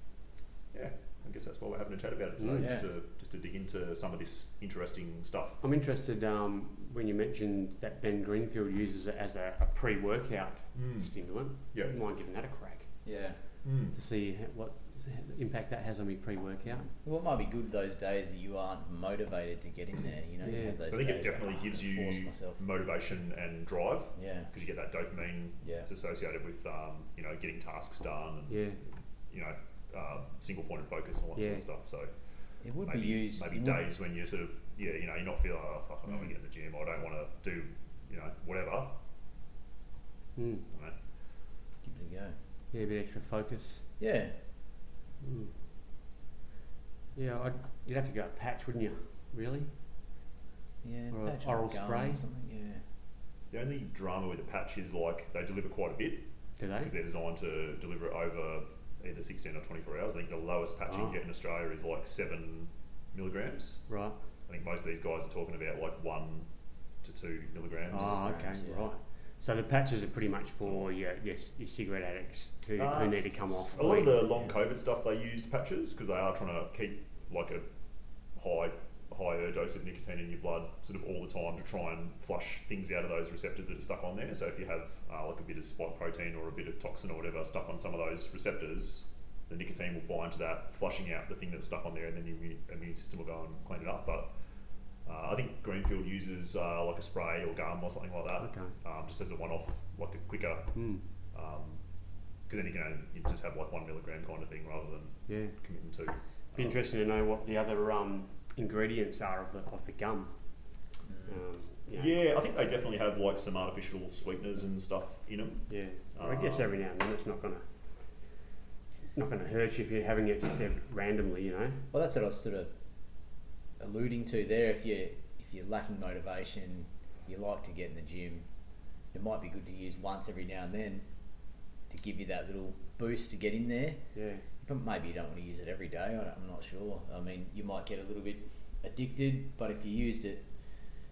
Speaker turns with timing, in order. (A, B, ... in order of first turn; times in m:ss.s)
0:00.7-0:05.6 A
0:02.4-0:02.8 B
0:02.6-0:02.8 C
0:05.6-0:12.9 B
0:10.8-0:11.1 A
0:13.0-0:13.4 C
0:13.6-0:14.0 A
0:13.9-0:16.9 B
0:16.9-0:22.6 C
0:20.4-0:20.8 B
0:20.8-0:28.6 A
0:24.2-0:24.5 C
0:25.6-0:25.9 C
0:28.5-0:28.8 B
0:29.3-0:32.1 A
0:31.4-0:31.6 B
0:32.6-0:33.8 C
0:32.8-0:39.0 A
0:40.4-0:40.7 B
0:41.8-0:42.4 C
0:42.7-0:43.8 B
0:44.0-0:44.3 C
0:45.2-0:45.5 B
0:47.2-0:49.7 B
0:50.8-0:52.8 C
0:51.1-0:52.2 B
0:53.5-0:56.2 A
0:56.6-0:56.9 B
0:56.8-1:03.9 A
1:00.9-1:01.2 B
1:03.9-1:04.2 B
1:04.5-1:06.5 A
1:07.0-1:08.2 A
1:07.9-1:14.5 B
1:07.9-1:08.9 C
1:12.8-1:17.6 A
1:18.4-1:34.3 A
1:35.0-1:40.8 A
1:38.4-1:38.8 B
1:40.8-1:41.0 B
1:41.3-1:41.8 A
1:42.5-1:46.9 A
1:45.3-1:45.6 B
1:46.6-1:50.3 B
1:51.1-1:51.4 C
1:51.3-1:52.1 B
1:51.9-1:56.8 A
1:55.7-1:57.6 B
1:59.2-2:01.8 B
2:01.9-2:02.7 C
2:03.8-2:08.4 C
2:09.1-2:11.0 C
2:11.9-2:14.0 C
2:14.2-2:14.4 B
2:14.6-2:20.4 C